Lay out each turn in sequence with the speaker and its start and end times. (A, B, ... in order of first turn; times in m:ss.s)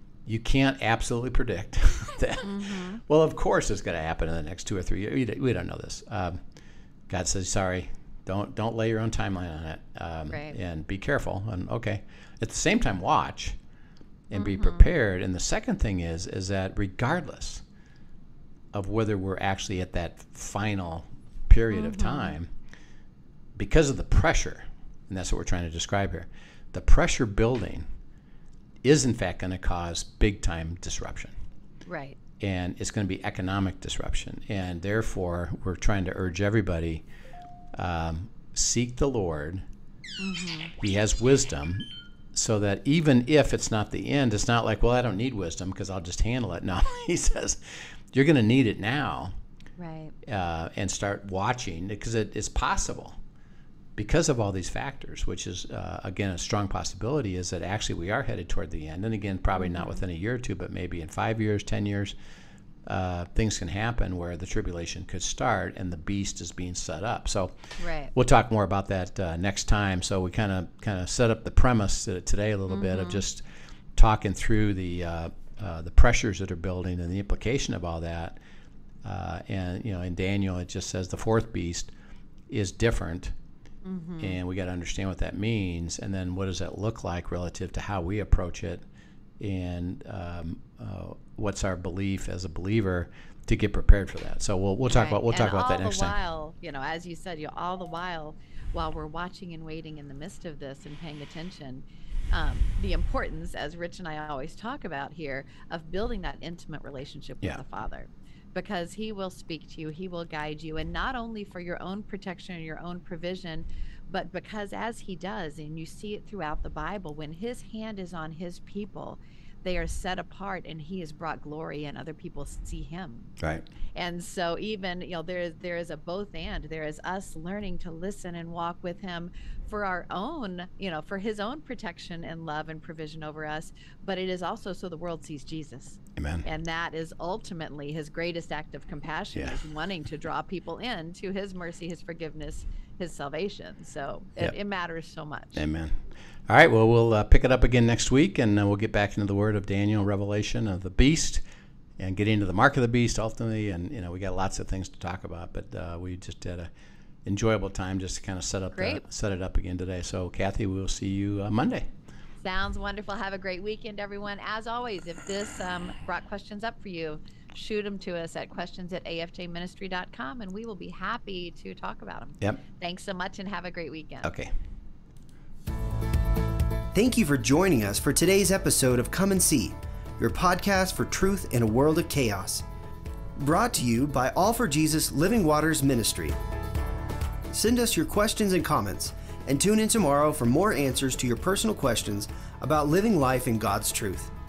0:00.2-0:06.4 A
0:02.4-0:03.0 B
0:07.1-0:13.6 A
0:10.3-0:10.6 B
0:14.3-0:17.6 A
0:14.3-0:14.9 B
0:18.7-0:22.5 A
0:21.7-0:22.3 B
0:23.6-0:27.8 A
0:28.8-0:31.3 A
0:31.8-0:32.2 B
0:32.4-0:37.0 A
0:37.8-0:39.6 A
0:40.2-0:40.7 B
0:40.8-0:47.6 A
0:48.1-0:49.3 A
0:49.8-0:50.1 B
0:50.2-0:53.2 A
0:54.0-1:02.1 A
0:59.6-1:00.0 B
1:02.8-1:07.5 A
1:07.8-1:08.1 B
1:08.1-1:13.4 A
1:12.7-1:13.2 B
1:14.0-1:18.4 A
1:19.0-1:21.9 A
1:22.5-1:23.3 A
1:23.8-1:24.4 B
1:24.2-1:28.8 A
1:29.4-1:36.1 A
1:34.9-2:03.3 B
2:03.4-2:03.6 A
2:03.9-2:25.6 B
2:16.2-2:16.4 A
2:25.5-2:31.4 A
2:32.0-2:36.7 A
2:37.2-2:41.9 A
2:38.7-2:39.0 B
2:42.4-2:54.3 B
2:54.2-2:54.5 A
2:56.9-3:02.6 C
3:03.4-3:06.4 C
3:07.5-3:14.3 C